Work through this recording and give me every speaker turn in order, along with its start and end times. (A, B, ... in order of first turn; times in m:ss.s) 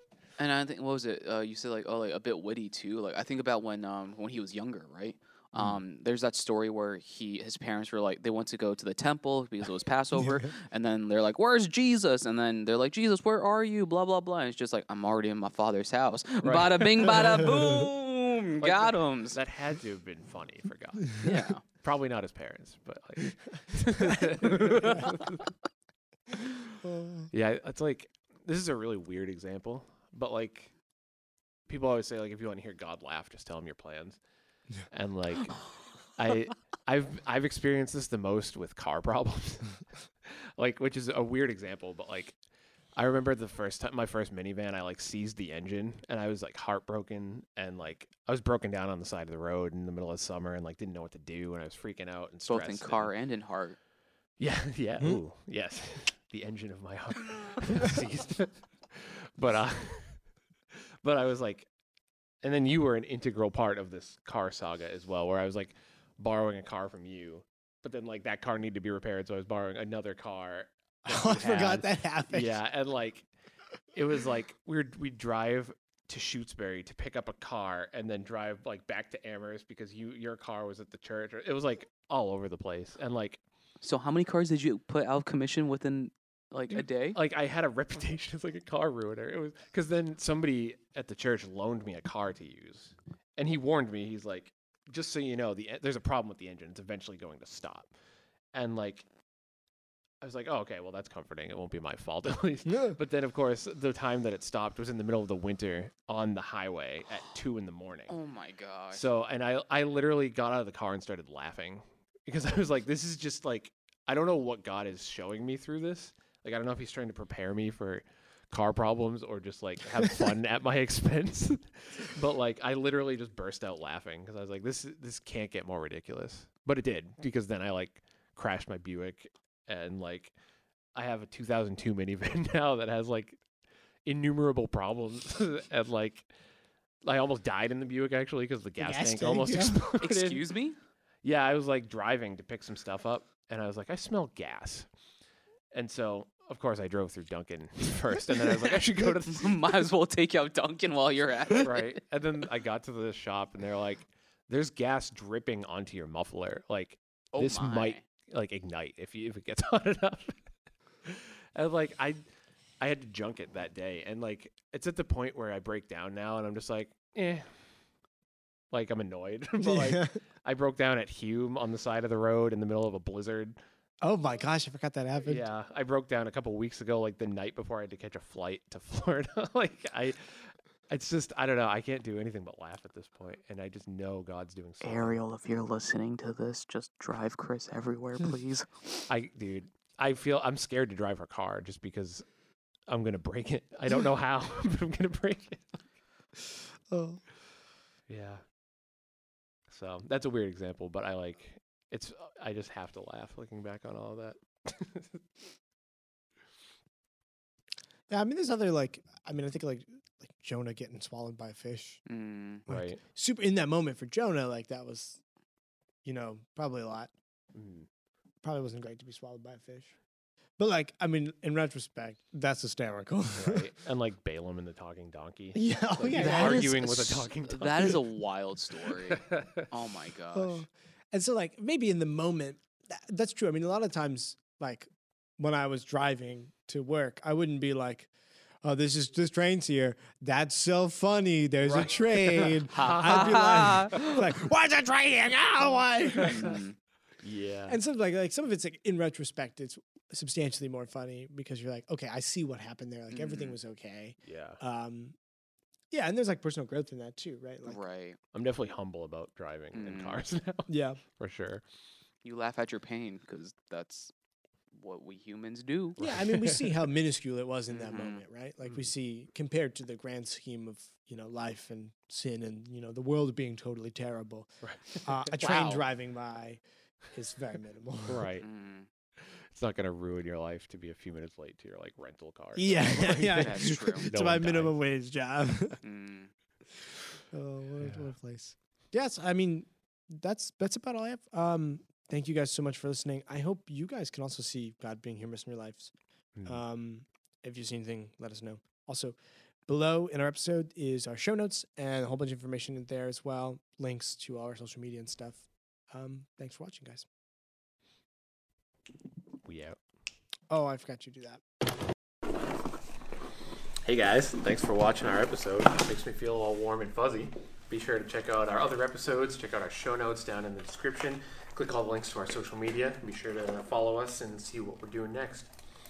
0:00.4-0:19.4 A
0:16.4-0:17.5 B
0:18.6-0:25.5 B
0:21.2-0:21.6 A
0:26.8-0:27.3 C
0:27.3-0:30.7 B
0:31.7-0:34.2 B
0:34.9-0:35.6 B
0:36.2-0:42.4 B
0:43.0-0:53.1 B
0:52.5-0:53.8 A
0:54.4-1:00.2 B
1:01.0-1:01.7 B
1:02.4-1:13.3 B
1:11.0-1:12.6 C
1:13.9-1:23.4 B
1:23.8-1:27.2 A
1:26.7-1:37.9 B
1:38.5-1:39.0 B
1:40.2-1:48.2 B
1:42.6-1:43.0 C
1:48.1-1:49.0 A
1:48.9-2:10.3 B
2:10.9-2:13.4 B
2:14.0-2:16.3 B
2:17.0-2:20.4 B
2:18.8-2:19.9 C
2:20.0-2:20.8 A
2:21.2-2:24.9 B
2:25.7-2:29.8 B
2:29.3-2:31.9 A
2:31.5-2:40.4 B
2:37.3-2:38.0 A
2:41.0-2:42.2 B
2:42.8-2:47.5 B
2:48.7-2:53.6 B
2:49.6-2:50.2 C
2:54.0-2:55.4 C
2:55.2-3:05.2 B
3:04.8-3:09.0 A
3:09.1-3:12.2 B
3:12.9-3:15.8 B
3:16.9-3:17.2 C
3:18.1-3:18.4 B
3:19.7-3:25.2 B
3:28.1-3:32.0 C
3:32.1-3:32.6 A
3:32.7-3:35.2 C
3:32.7-3:33.0 B
3:36.0-3:37.1 C
3:37.5-3:37.9 B
3:38.4-3:39.9 C
3:40.6-3:43.7 C
3:43.4-3:48.0 B
3:45.5-3:47.3 C
3:46.1-3:46.7 A
3:47.5-3:50.6 A
3:49.1-3:49.7 B
3:50.3-3:58.1 C
3:58.6-4:06.6 C
4:01.6-4:03.9 B
4:03.0-4:04.1 A
4:06.2-4:06.7 A
4:07.2-4:07.8 B
4:07.7-4:15.2 C
4:13.1-4:13.5 A
4:14.2-4:14.6 B
4:15.9-4:17.8 C
4:17.6-4:18.2 A
4:18.3-4:21.6 B
4:19.7-4:20.2 A
4:20.7-4:21.0 C
4:22.2-4:24.1 A
4:24.7-4:26.0 A
4:26.0-4:26.7 B
4:26.0-4:38.2 C
4:27.7-4:28.2 A
4:34.6-4:35.2 B
4:35.3-4:35.8 A
4:38.1-4:38.5 B
4:38.4-4:38.9 A
4:39.2-4:44.8 B
4:42.6-4:45.8 C
4:43.0-4:44.2 A
4:45.8-4:46.3 A
4:47.3-4:55.9 C
4:47.8-4:48.1 B
4:56.4-4:56.6 B
4:56.4-5:07.0 C
5:09.4-5:09.8 B
5:10.5-5:11.4 C
5:13.8-5:25.5 B